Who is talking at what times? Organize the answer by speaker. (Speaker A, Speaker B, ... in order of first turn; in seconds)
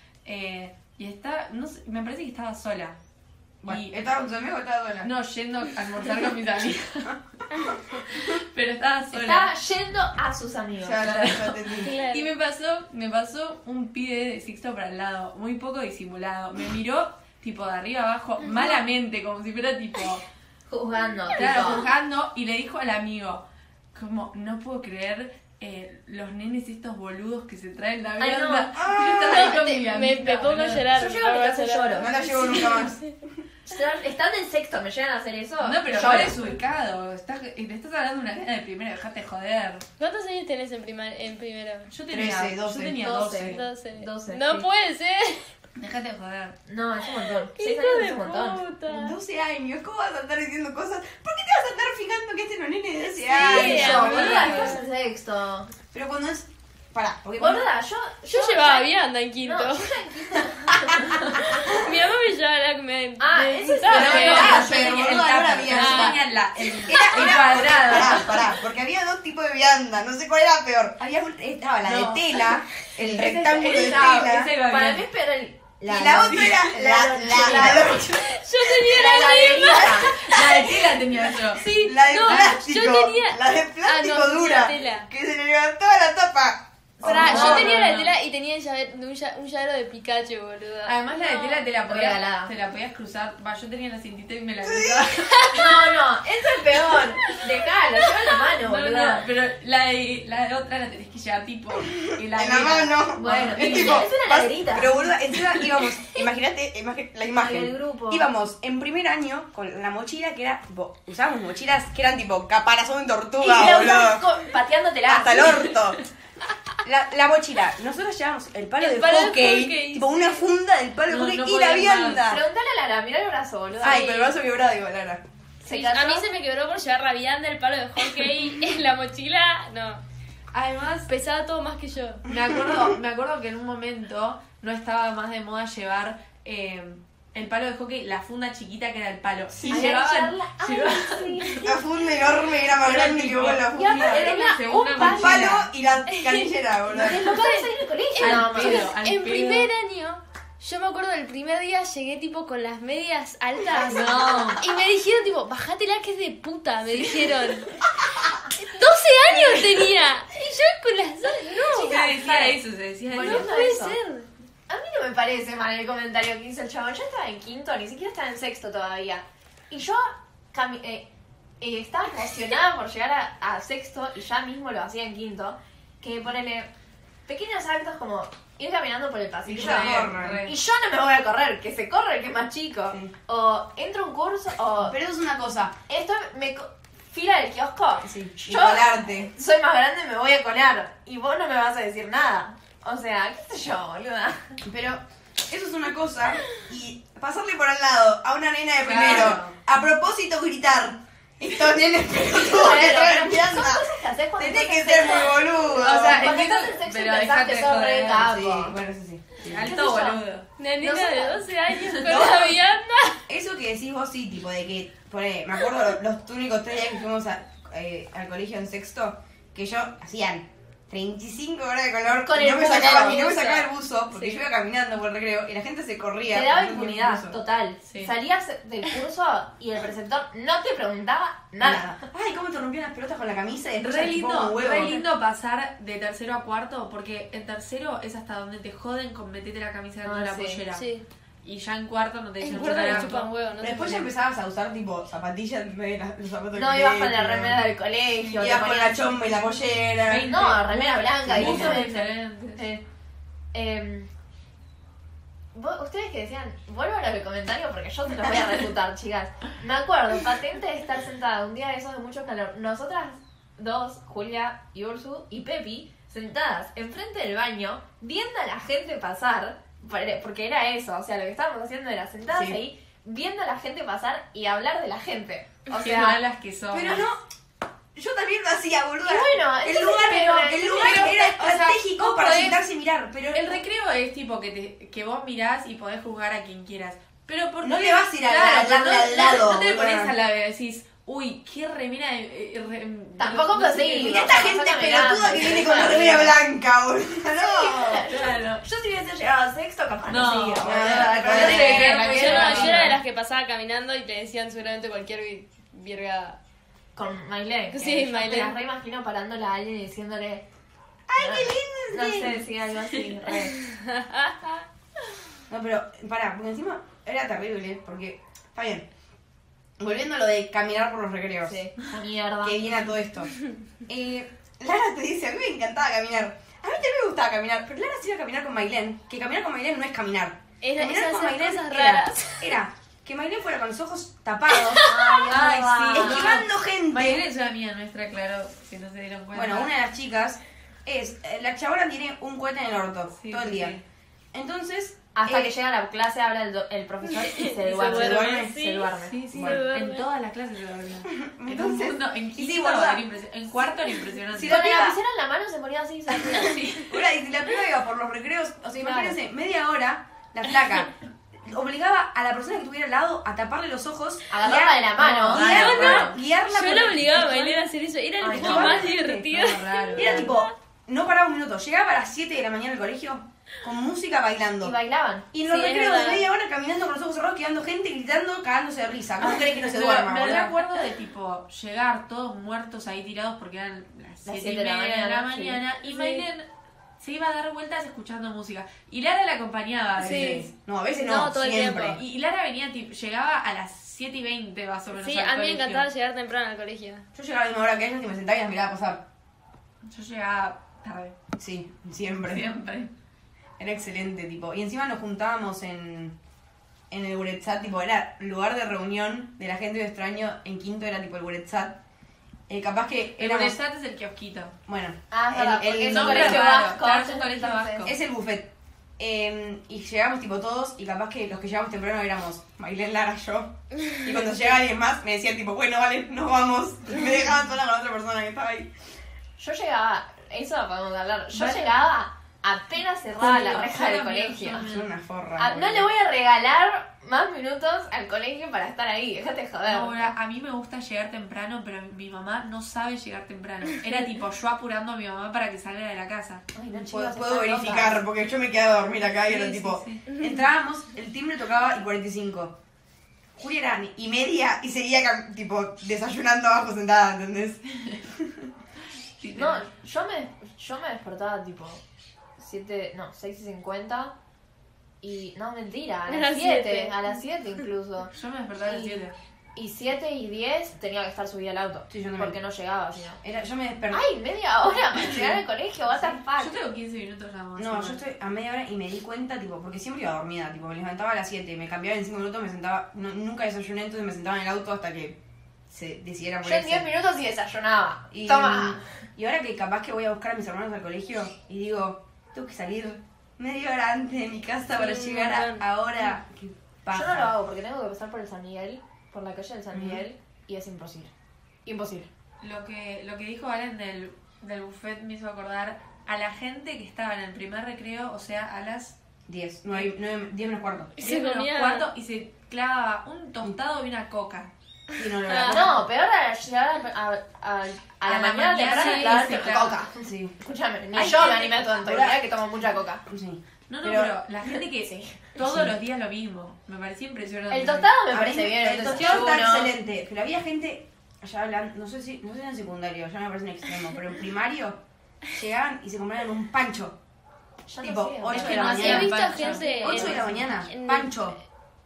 Speaker A: 0.2-3.0, 3.6-4.0, 5.0-7.2, 8.0-9.5, 11.0-20.2, 21.3-31.1, 35.6-39.9, 41.9-43.6, 45.8-46.6, 53.5-54.8, 63.9-68.5, 71.8-72.3, 73.0-75.0, 76.0-76.6, 77.3-77.8, 80.0-81.7, 82.2-82.5, 87.1-88.1, 90.8-95.9, 98.5-104.1, 121.1-122.3, 130.5-131.1, 132.2-141.8, 142.5-145.6, 148.2-149.7, 153.9-154.5, 157.0-157.2, 161.8-163.5, 179.5-180.5, 198.8-199.6, 205.7-208.3, 209.4-210.5, 211.7-212.2, 227.9-228.1, 233.8-240.8, 241.4-243.3, 250.0-252.6, 275.7-277.0, 280.8-282.6, 283.3-294.3, 298.1-298.6, 300.1-302.9, 335.2-339.7, 343.1-343.8, 348.9-354.6, 356.3-357.0, 365.0-366.2, 379.2-386.4, 387.0-390.5, 391.9-395.9, 399.9-401.2, 402.3-402.9, 413.2-414.5, 415.9-417.9, 431.3-431.9, 433.1-434.9, 439.7-446.4, 449.2-450.0, 459.2-459.7, 468.1-469.1, 475.9-478.0, 502.4-508.9, 511.0-514.5, 518.0-519.8, 523.7-527.9, 538.3-540.0
Speaker B: 3.6-5.1, 10.8-11.9, 28.7-29.6, 31.9-33.1, 42.1-43.5, 48.9-54.8, 55.9-57.7, 63.9-74.5, 75.8-78.3, 79.3-80.2, 81.6-87.8, 94.6-95.1, 101.9-114.2, 115.1-116.0, 116.8-122.4, 123.8-125.2, 132.3-132.9, 139.5-139.9, 141.6-144.3, 145.0-147.3, 179.4-180.4, 184.8-185.8, 188.0-189.3, 194.6-206.3, 208.2-209.7, 212.0-212.6, 213.3-227.4, 231.6-235.0, 242.5-247.6, 248.3-250.3, 251.2-251.9, 272.3-272.6, 276.7-277.2, 277.9-283.6, 287.6-290.1, 294.0-298.0, 300.6-302.8, 311.1-312.4, 315.5-318.9, 319.8-321.6, 322.4-323.4, 323.9-334.8, 335.9-337.2, 339.3-343.8, 344.3-345.6, 347.8-348.5, 349.3-349.6, 351.1-353.0, 354.3-355.0, 356.3-367.6, 368.3-374.7, 375.3-380.6, 390.0-392.0, 397.1-399.0, 401.4-402.4, 403.6-406.1, 406.9-411.8, 412.5-413.6, 414.7-416.5, 417.8-428.7, 434.5-435.9, 446.7-452.5, 453.4-458.4, 471.9-472.4, 473.2-474.1, 477.6-485.2, 485.7-486.9, 488.1-497.3, 499.7-500.0, 509.3-510.9, 515.0-515.8, 520.0-520.4, 520.9-522.2, 523.0-524.1, 525.4-525.7, 528.1-534.8, 535.3-537.0, 537.8-539.1, 539.8-541.4
Speaker C: 9.1-11.3, 20.7-21.9, 28.2-28.8, 30.9-32.9, 33.6-36.6, 43.0-44.7, 46.7-48.6, 53.3-55.7, 57.4-61.5, 63.2-64.9, 67.3-68.3, 74.6-78.1, 78.8-80.1, 87.0-87.8, 91.8-92.5, 95.5-99.3, 103.2-105.0, 107.3-108.3, 113.4-115.7, 122.2-124.3, 125.6-126.3, 139.7-141.8, 143.7-145.6, 146.9-148.9, 153.9-154.6, 159.3-159.8, 161.5-164.0, 164.7-171.1, 171.6-176.7, 177.3-184.9, 185.9-194.6, 202.3-208.8, 209.5-210.2, 210.8-211.4, 222.2-223.6, 226.3-232.0, 240.0-240.6, 246.5-249.1, 250.3-252.8, 253.5-254.1, 255.5-276.2, 279.0-281.3, 293.2-296.4, 297.4-303.0, 306.9-310.4, 311.2-313.6, 321.4-322.8, 334.8-336.3, 345.1-349.2, 354.4-356.6, 358.8-359.1, 364.3-365.9, 368.2-368.9, 369.7-370.3, 374.6-375.3, 384.2-386.2, 415.1-417.9, 429.4-434.6, 435.4-440.1, 446.5-448.0, 459.3-461.8, 462.4-464.1, 465.0-469.0, 469.6-473.2, 473.9-476.6, 486.4-488.8, 496.9-501.1, 501.6-502.1, 515.5-523.0, 524.4-525.2, 527.5-529.7, 537.7-540.4
Speaker D: 11.8-12.3, 18.5-18.7, 21.6-21.8, 29.2-33.1, 40.0-41.9, 43.5-45.5, 47.6-49.2, 53.2-54.8, 58.3-60.0, 61.2-64.6, 65.7-66.2, 78.0-80.9, 81.5-85.1, 87.0-91.7, 95.3-95.6, 118.8-120.5, 125.7-130.0, 131.1-132.2, 146.1-146.5, 147.1-157.8, 158.5-162.0, 163.2-164.3, 210.6-213.2, 223.1-223.6, 240.7-241.0, 242.4-244.1, 302.0-306.4, 307.7-308.6, 313.6-314.6, 330.6-332.5, 334.6-335.2, 347.0-350.0, 365.4-370.5, 375.4-376.2, 390.0-392.0, 395.0-397.1, 450.1-450.4, 466.1-467.2, 494.7-495.7, 511.0-511.9, 515.0-515.7, 518.7-519.4, 538.5-541.3